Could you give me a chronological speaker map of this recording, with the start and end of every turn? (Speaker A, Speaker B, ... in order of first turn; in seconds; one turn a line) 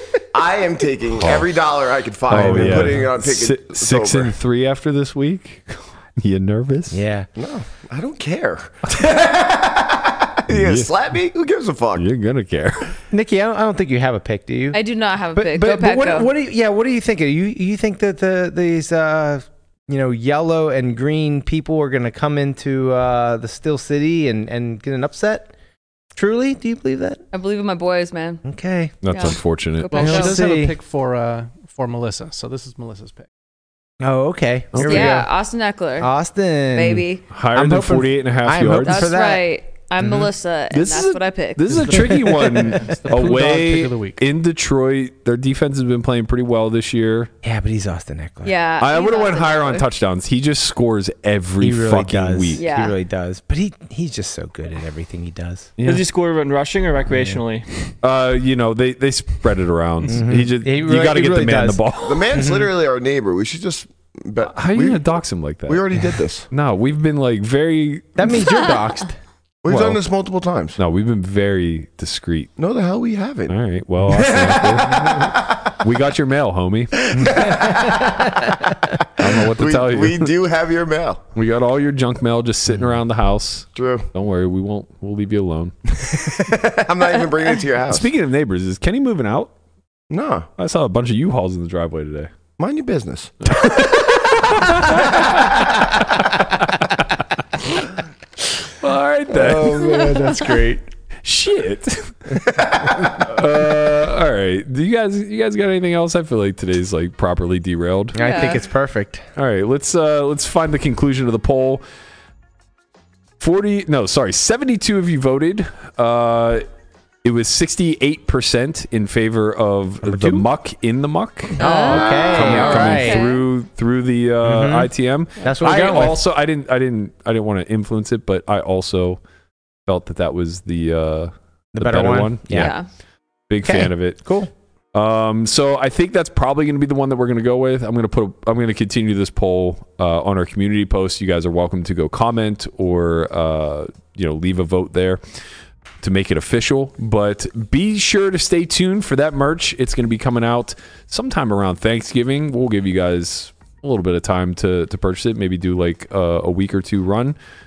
Speaker A: 0.3-4.3
Speaker B: 1.2-1.5
Speaker C: 2.3-3.1
Speaker B: 2.3-7.0
Speaker C: 6.9-7.3
Speaker A: 7.4-12.0
Speaker B: 10.5-10.9
Speaker B: 12.0-13.0
Speaker C: 13.1-14.8
Speaker D: 14.7-16.3
Speaker C: 15.3-25.5
Speaker C: 26.1-27.2
Speaker D: 27.3-28.4
Speaker C: 28.4-28.9
Speaker B: 29.0-30.1
Speaker D: 29.1-30.4
Speaker E: 29.9-33.3
Speaker C: 30.0-30.8
Speaker C: 34.0-35.3
Speaker B: 34.7-35.2
Speaker D: 34.8-36.1
Speaker C: 36.0-39.5
Speaker D: 36.7-37.2
Speaker B: 37.3-39.1
Speaker D: 38.8-41.6
Speaker B: 40.7-47.3
Speaker E: 41.8-44.2
Speaker C: 47.4-48.5
Speaker D: 48.4-49.8
Speaker B: 48.8-52.6
Speaker C: 51.6-55.7
Speaker D: 52.6-53.0
Speaker B: 55.8-56.0
Speaker F: 55.9-57.9
Speaker C: 57.1-57.4
Speaker B: 58.0-62.3
Speaker C: 60.1-62.7
Speaker A: 62.0-65.0
Speaker B: 64.4-65.9
Speaker A: 65.7-66.5
Speaker B: 66.5-68.4
Speaker C: 68.2-69.2
Speaker A: 69.6-70.8
Speaker B: 69.7-70.0
Speaker B: 70.8-72.5
Speaker A: 72.6-73.5
Speaker B: 73.5-77.0
Speaker A: 74.1-75.3
Speaker A: 77.1-78.3
Speaker C: 77.1-78.5
Speaker B: 79.2-80.3
Speaker A: 79.2-81.2
Speaker B: 81.3-85.8
Speaker A: 83.8-84.1
Speaker A: 86.0-88.1
Speaker B: 87.9-89.5
Speaker A: 90.1-90.5
Speaker B: 90.6-92.3
Speaker A: 92.6-93.3
Speaker B: 93.5-96.9
Speaker B: 98.8-100.3
Speaker C: 99.3-100.8
Speaker B: 101.2-102.4
Speaker A: 102.8-103.1
Speaker B: 103.0-108.5
Speaker C: 108.1-109.2
Speaker D: 108.2-108.6
Speaker B: 109.4-111.8
Speaker B: 113.4-116.7
Speaker B: 117.2-129.2
Speaker C: 120.0-120.5
Speaker C: 121.6-123.2
Speaker D: 121.6-123.4
Speaker C: 124.4-126.2
Speaker B: 129.9-132.8
Speaker C: 131.7-132.7
Speaker D: 132.5-132.9
Speaker B: 133.5-134.2
Speaker C: 133.6-134.5
Speaker B: 134.9-145.2
Speaker B: 146.0-157.4